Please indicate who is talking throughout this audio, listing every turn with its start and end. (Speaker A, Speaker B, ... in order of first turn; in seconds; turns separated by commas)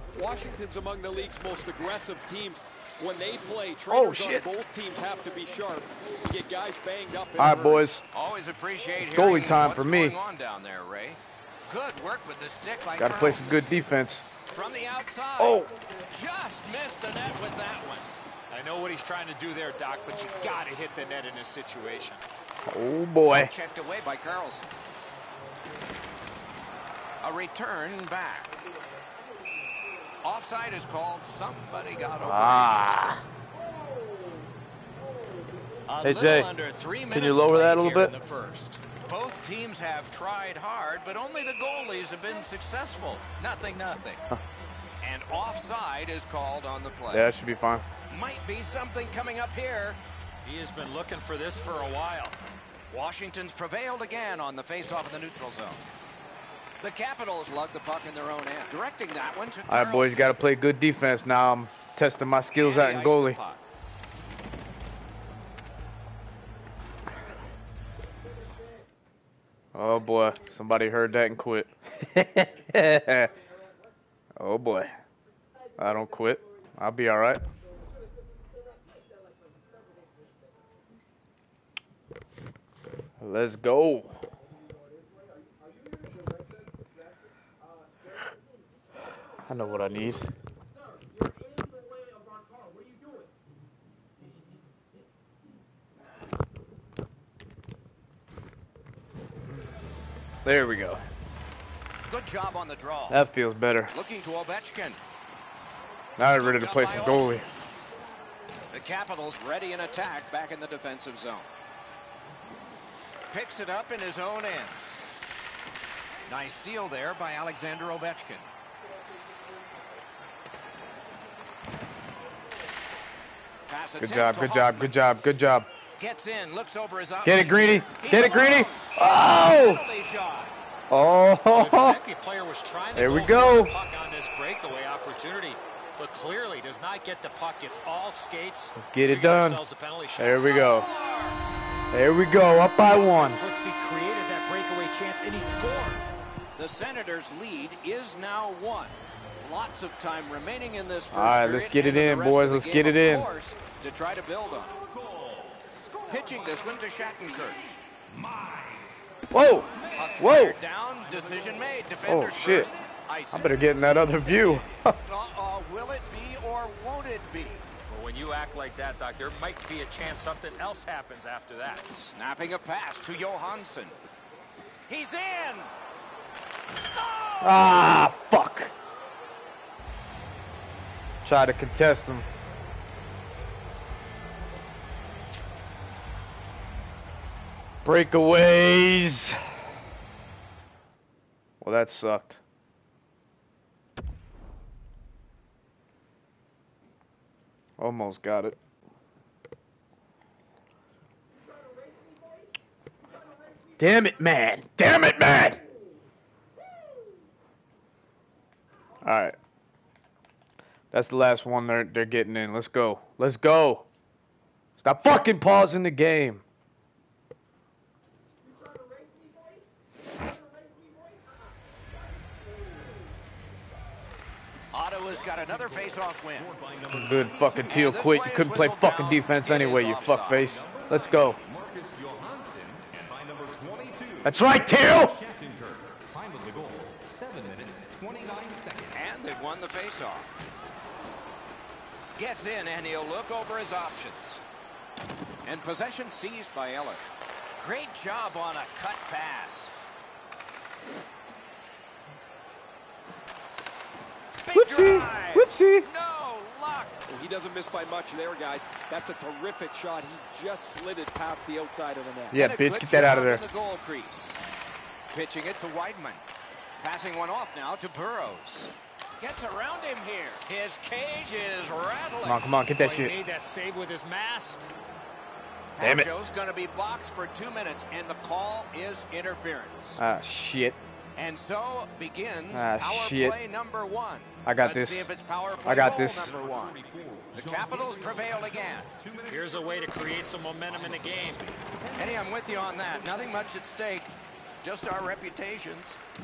Speaker A: 0.1-7.8, Speaker B: 3.9-4.4, Speaker B: 7.4-8.0, Speaker C: 8.1-13.7, Speaker B: 9.0-10.1, Speaker B: 13.0-14.2, Speaker C: 14.5-18.1, Speaker B: 15.4-15.7, Speaker D: 18.5-22.2, Speaker B: 22.7-23.5, Speaker C: 23.3-24.7, Speaker C: 27.2-28.6, Speaker C: 30.2-33.2, Speaker B: 32.2-33.2, Speaker C: 35.9-44.2, Speaker B: 36.0-36.5, Speaker B: 37.1-38.1, Speaker C: 45.0-47.3, Speaker B: 47.1-47.9, Speaker C: 48.1-50.0, Speaker D: 50.4-52.4, Speaker C: 52.9-55.8, Speaker C: 56.8-60.3, Speaker B: 59.7-63.4, Speaker C: 62.5-63.6, Speaker B: 69.7-73.3, Speaker B: 74.4-74.9, Speaker B: 75.8-77.4, Speaker B: 83.2-84.1, Speaker B: 89.5-90.2, Speaker B: 100.4-101.0, Speaker C: 102.1-103.2, Speaker B: 103.1-103.9, Speaker C: 103.9-105.0, Speaker B: 106.2-107.4, Speaker C: 106.3-107.5, Speaker C: 108.7-111.5, Speaker C: 113.3-114.8, Speaker C: 116.3-118.5, Speaker C: 123.7-125.0, Speaker B: 124.0-125.7, Speaker C: 126.0-130.5, Speaker B: 127.2-129.8, Speaker B: 130.9-132.0, Speaker D: 131.5-140.7, Speaker B: 132.9-133.7, Speaker B: 138.8-139.6, Speaker B: 140.2-140.9, Speaker C: 140.5-141.4, Speaker B: 141.9-143.4, Speaker D: 142.8-146.1, Speaker C: 146.6-154.8, Speaker B: 151.1-153.3, Speaker E: 154.7-159.0, Speaker C: 156.1-157.6, Speaker B: 159.3-160.6, Speaker E: 159.7-164.8, Speaker C: 159.9-163.7, Speaker B: 162.1-162.7, Speaker B: 163.3-165.0, Speaker C: 165.0-167.6, Speaker D: 167.9-172.1, Speaker C: 172.0-174.0, Speaker C: 174.9-175.7, Speaker C: 176.7-177.7, Speaker B: 177.4-178.7, Speaker B: 181.2-182.2, Speaker B: 187.8-189.4, Speaker B: 191.6-192.4, Speaker B: 197.8-198.6, Speaker B: 203.8-205.6, Speaker B: 209.0-209.3, Speaker B: 210.9-213.8, Speaker B: 214.8-216.4, Speaker C: 224.7-226.5, Speaker E: 225.1-227.9, Speaker B: 226.9-231.4, Speaker C: 227.7-230.5, Speaker E: 230.1-239.0, Speaker B: 234.2-235.2, Speaker C: 238.9-240.3, Speaker C: 242.2-244.4, Speaker C: 245.4-247.0, Speaker C: 247.6-249.7, Speaker C: 254.4-257.0, Speaker B: 254.5-255.8, Speaker A: 257.1-262.4, Speaker B: 262.3-263.4, Speaker C: 262.3-264.4, Speaker C: 265.1-266.2, Speaker C: 266.8-272.4, Speaker B: 272.2-273.1, Speaker D: 272.8-274.7, Speaker C: 275.8-280.0, Speaker B: 275.8-276.1, Speaker B: 280.0-280.8, Speaker C: 281.1-286.8, Speaker B: 282.5-283.4, Speaker B: 284.4-285.1, Speaker B: 285.6-286.3, Speaker E: 285.6-293.6, Speaker C: 287.3-288.9, Speaker D: 289.2-291.5, Speaker C: 291.9-294.1, Speaker C: 294.6-296.0